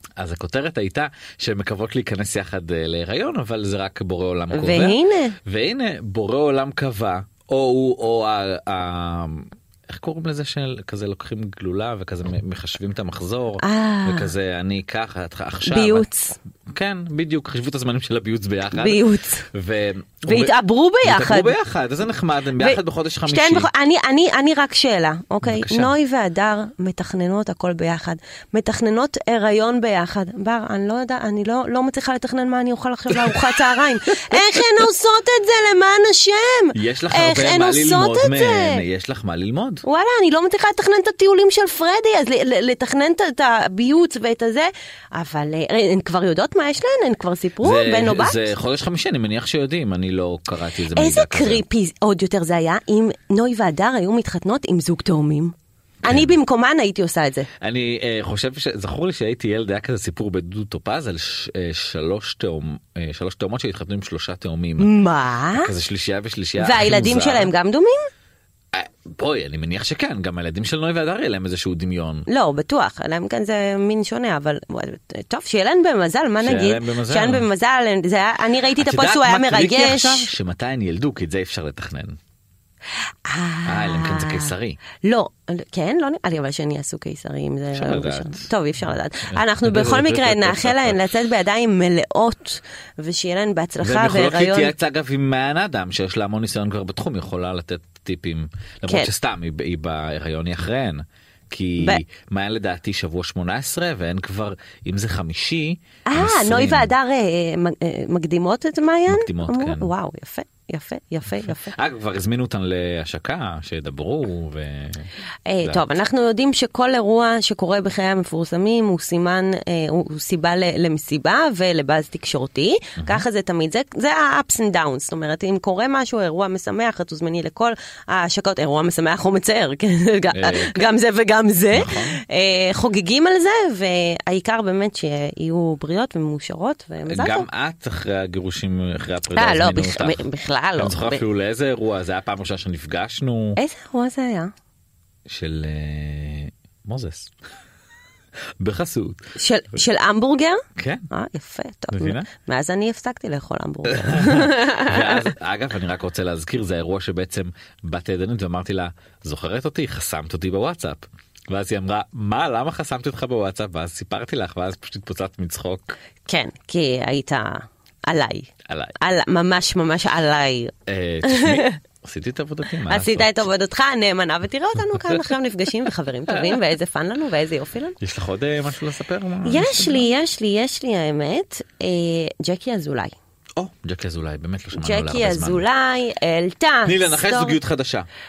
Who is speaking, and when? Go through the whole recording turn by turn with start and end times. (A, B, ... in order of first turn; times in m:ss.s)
0:00.2-0:16.0 A
0:04.5-0:05.4 B
0:13.6-0:14.3 B
0:15.6-0:16.4 B
0:16.7-0:19.0 A
0:18.7-0:19.4 B
0:19.5-0:23.7 A
0:20.2-0:21.5 B
0:22.6-0:38.8 B
0:25.4-0:25.9 A
0:33.1-0:33.7 A
0:34.3-0:34.6 A
0:36.7-0:39.8 A
0:39.8-0:48.5 B
0:47.6-0:51.6 A
0:50.9-0:57.5 B
0:56.0-0:56.3 A
0:57.6-1:04.9 A
1:04.8-1:05.7 B
1:05.5-1:07.5 A
1:06.6-1:08.1 B
1:08.7-1:12.3 A
1:12.3-1:20.3 B
1:16.4-1:17.4 A
1:18.8-1:22.2 A
1:23.2-1:34.7 B
1:23.6-1:24.8 A
1:27.7-1:31.0 A
1:33.8-1:46.9 A
1:46.1-1:51.7 B
1:49.1-1:49.9 A
1:51.4-1:55.1 A
1:55.5-2:17.4 B
2:03.0-2:03.2 A
2:10.3-2:10.9 A
2:11.7-2:12.2 A
2:17.1-2:20.2 A
2:19.3-2:21.2 B
2:20.8-2:23.6 A
2:23.6-2:24.5 B
2:25.3-2:27.3 A
2:28.6-2:29.2 A
2:29.4-2:35.2 B
2:30.8-2:31.1 A
2:31.9-2:32.3 A
2:33.9-2:46.0 A
2:46.3-2:51.8 B
2:48.7-2:48.9 A
2:50.9-2:53.5 A
2:52.9-2:58.0 B
2:56.3-2:56.6 A
2:58.0-3:00.1 A
2:59.4-3:03.1 B
3:03.6-3:05.6 A
3:04.8-3:07.6 B
3:06.8-3:08.1 A